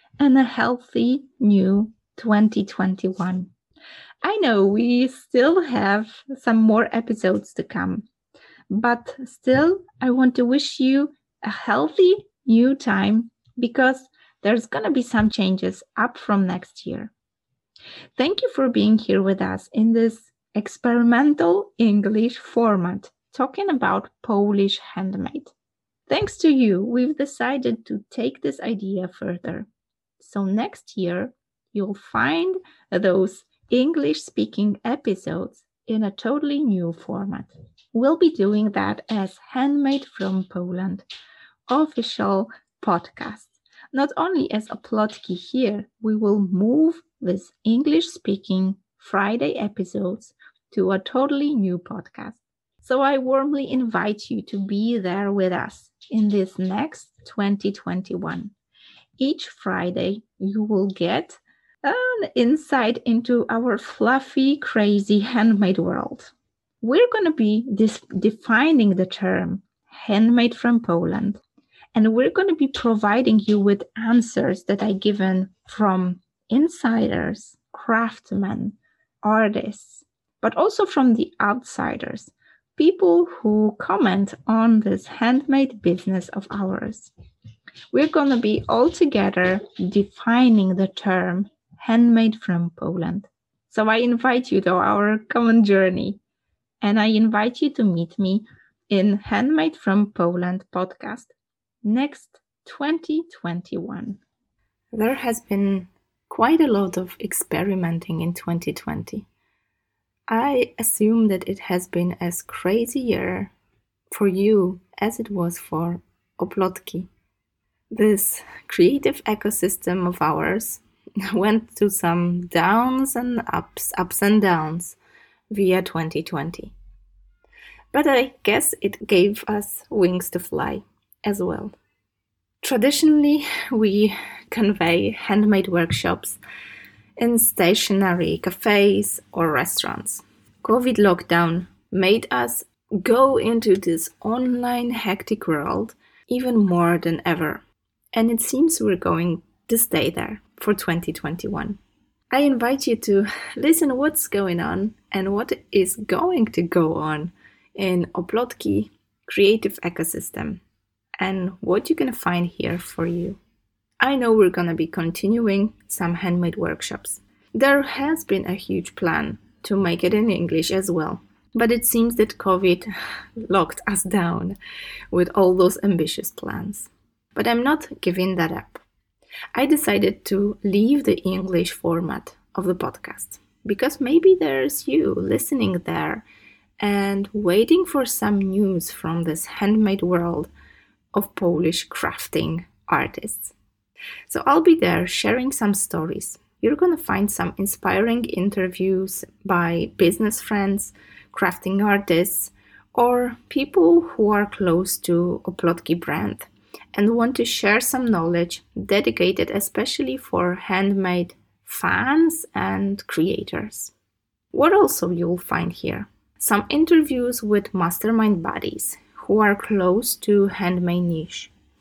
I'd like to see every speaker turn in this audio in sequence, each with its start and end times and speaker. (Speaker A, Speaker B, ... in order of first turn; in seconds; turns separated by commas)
Speaker A: 0.2-3.5, Speaker A: 4.2-8.1, Speaker A: 8.7-17.1, Speaker A: 18.2-25.5, Speaker A: 26.1-29.7, Speaker A: 30.2-41.0, Speaker A: 41.7-58.5, Speaker A: 59.2-71.4, Speaker A: 72.0-87.1, Speaker A: 87.9-96.2, Speaker A: 96.8-101.3, Speaker A: 101.8-104.2, Speaker A: 104.9-109.3, Speaker A: 110.3-113.5, Speaker A: 114.1-117.1, Speaker A: 117.9-125.0, Speaker A: 125.5-126.7, Speaker A: 127.9-131.8, Speaker A: 132.6-136.4, Speaker A: 137.2-147.6, Speaker A: 148.1-151.8, Speaker A: 152.3-160.6, Speaker A: 161.2-163.4, Speaker A: 164.0-172.9, Speaker A: 173.4-174.6, Speaker A: 175.1-178.8, Speaker A: 179.6-186.2, Speaker A: 186.8-190.5, Speaker A: 191.1-193.6, Speaker A: 194.3-213.9, Speaker A: 214.5-221.5